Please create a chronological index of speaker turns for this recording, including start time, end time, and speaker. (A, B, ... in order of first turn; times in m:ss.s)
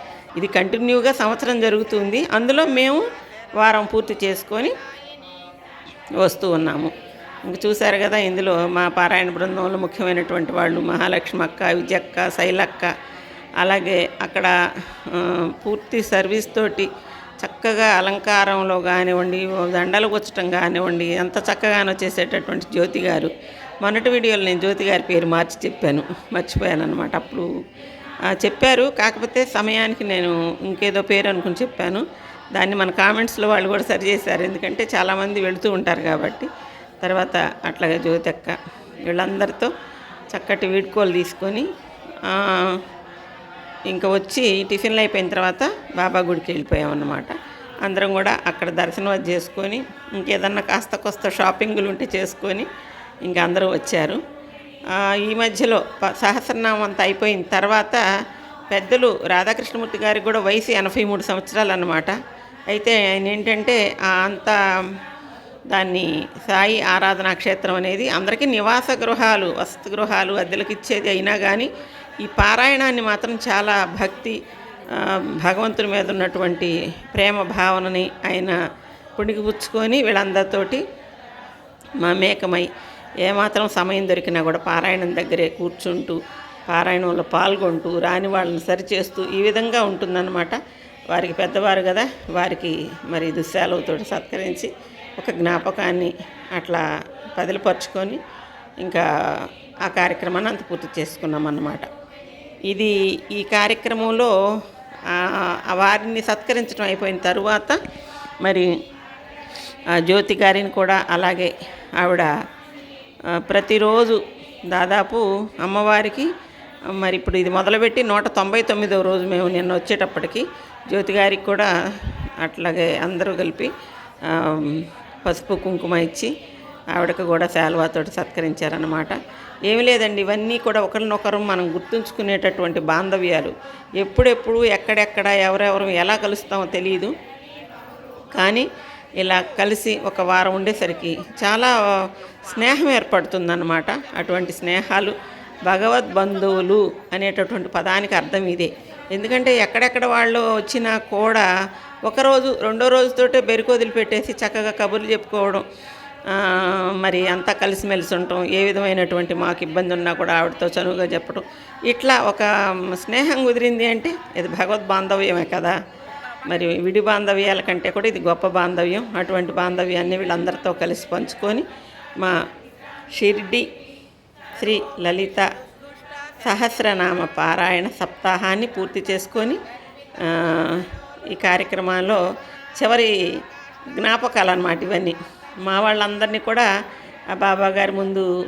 0:00.4-0:03.0 A
0:03.6-0:04.8 A
0:06.2-0:06.9 A
0:07.5-0:12.9 A
0:13.6-0:16.9 A
0:17.4-0:23.3 A
0:23.8-0:27.5 A
0:28.3-0:32.0 A
0:32.6-0:36.5 A
0:37.0-0:39.7 A
0:40.3-0:41.7 A
0:42.2-0:42.8 A
0:43.9-0:52.7 A
0:53.3-0:54.2 A
0:54.9-0:58.0 A
0:58.7-1:02.2 A
1:02.7-1:04.9 A
1:05.7-1:11.7 A
1:12.2-1:14.4 A
1:14.9-1:18.6 A
1:19.2-1:20.8 A
1:22.0-1:22.7 A
1:23.2-1:30.6 A
1:31.1-1:36.8 A
1:37.4-1:38.2 A
1:38.8-1:41.9 A
1:42.7-1:44.3 A
1:45.1-1:47.8 A
1:48.4-1:48.7 A
1:50.0-1:52.3 A
1:53.3-1:56.3 A
1:56.9-2:03.7 A
2:04.3-2:06.3 A
2:07.0-2:17.1 A
2:18.4-2:18.7 A
2:19.2-2:25.2 A
2:25.7-2:31.5 A
2:32.1-2:35.6 A
2:36.3-2:45.8 A
2:46.5-2:51.7 A
2:53.2-2:53.7 A
2:54.6-2:55.5 A
2:56.4-2:59.6 A
3:00.2-3:02.2 A
3:02.8-3:03.2 A
3:04.0-3:06.7 A
3:07.3-3:08.3 A